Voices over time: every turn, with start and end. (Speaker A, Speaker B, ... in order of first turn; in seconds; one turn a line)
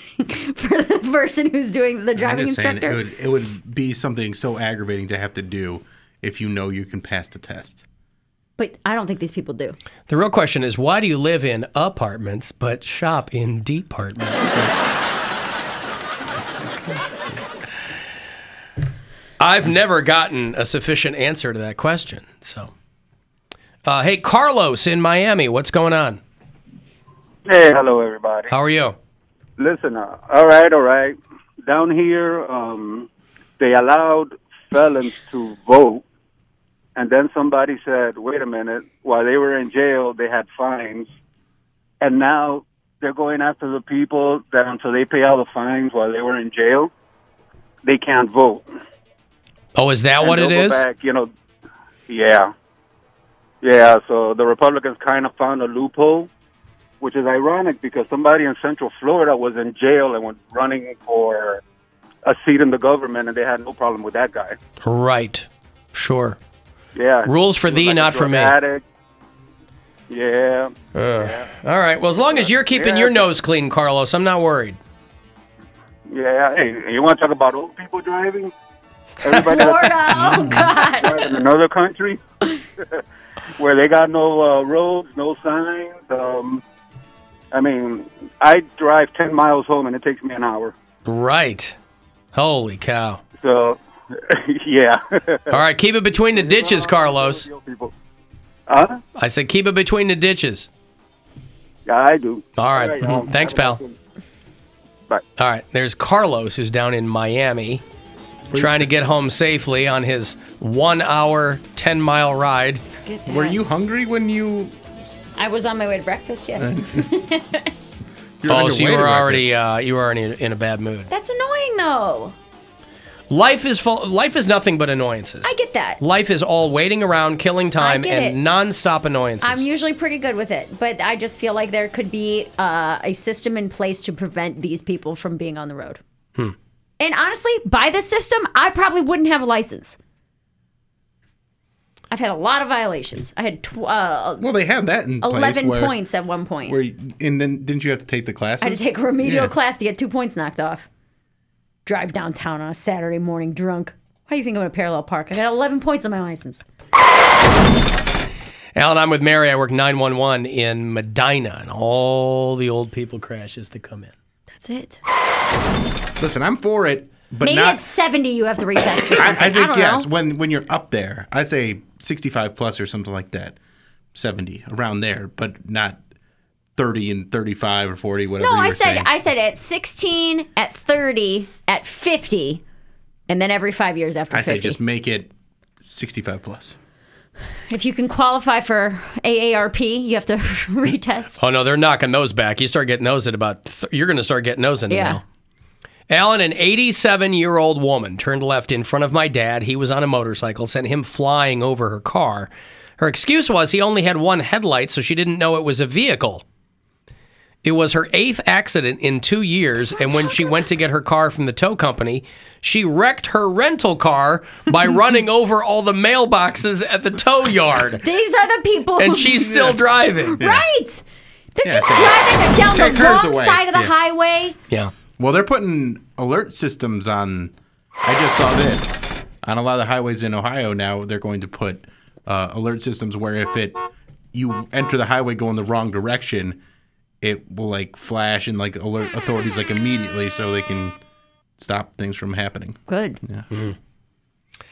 Speaker A: 0.2-3.0
Speaker B: 2.2-7.8
Speaker A: 8.6-9.8
Speaker C: 10.1-14.7
Speaker C: 19.4-22.7
Speaker C: 23.9-26.2
Speaker D: 27.5-28.5
Speaker C: 28.5-29.0
Speaker D: 29.6-33.1
Speaker D: 33.6-36.0
Speaker D: 37.0-41.1
Speaker D: 42.0-46.9
Speaker D: 47.8-48.7
Speaker C: 49.8-50.8
Speaker D: 50.2-51.3
Speaker D: 52.1-52.5
Speaker D: 53.6-56.3
Speaker D: 57.0-61.6
Speaker D: 62.2-64.6
Speaker C: 64.8-66.4
Speaker D: 67.0-68.8
Speaker C: 67.3-68.6
Speaker D: 70.1-71.5
Speaker C: 70.9-74.8
Speaker D: 72.3-73.3
Speaker D: 76.1-78.5
Speaker D: 79.2-82.2
Speaker A: 79.4-81.3
Speaker B: 80.3-80.5
Speaker D: 83.6-86.6
Speaker D: 87.5-90.8
Speaker C: 91.1-91.8
Speaker C: 92.3-93.2
Speaker D: 93.4-95.6
Speaker C: 95.5-97.5
Speaker D: 96.3-97.9
Speaker D: 98.7-99.0
Speaker C: 99.2-100.7
Speaker D: 101.9-104.0
Speaker C: 102.6-103.8
Speaker C: 105.4-107.8
Speaker B: 108.5-108.9
Speaker C: 108.5-112.8
Speaker A: 113.0-113.6
Speaker B: 113.3-114.9
Speaker A: 115.4-117.7
Speaker B: 116.6-117.1
Speaker B: 118.4-119.6
Speaker C: 118.5-121.1
Speaker A: 121.1-122.4
Speaker C: 123.3-129.7
Speaker A: 125.4-126.0
Speaker A: 127.8-128.4
Speaker A: 129.4-136.0
Speaker A: 137.0-140.0
Speaker A: 142.1-144.5
Speaker B: 144.4-146.0
Speaker A: 145.2-146.8
Speaker B: 146.7-149.5
Speaker A: 148.6-150.9
Speaker A: 151.9-156.6
Speaker C: 158.8-164.1
Speaker A: 164.5-165.0
Speaker B: 166.2-167.8
Speaker A: 167.4-170.1
Speaker B: 169.1-173.6
Speaker B: 174.1-176.0
Speaker B: 176.8-179.1
Speaker A: 178.4-182.6
Speaker A: 183.3-184.8
Speaker B: 184.3-185.3
Speaker B: 185.8-186.8
Speaker A: 187.7-191.4
Speaker C: 191.4-195.2
Speaker A: 194.9-195.2
Speaker C: 196.1-206.4
Speaker C: 207.6-218.0
Speaker A: 210.2-210.5
Speaker A: 218.0-219.6
Speaker C: 219.0-220.4
Speaker A: 220.3-221.0
Speaker B: 220.4-220.7
Speaker A: 221.6-224.6
Speaker B: 221.6-223.9
Speaker B: 225.2-227.5
Speaker B: 228.1-233.8
Speaker B: 234.3-236.6
Speaker B: 237.2-240.9
Speaker B: 241.6-243.4
Speaker A: 242.9-243.2
Speaker C: 243.5-243.8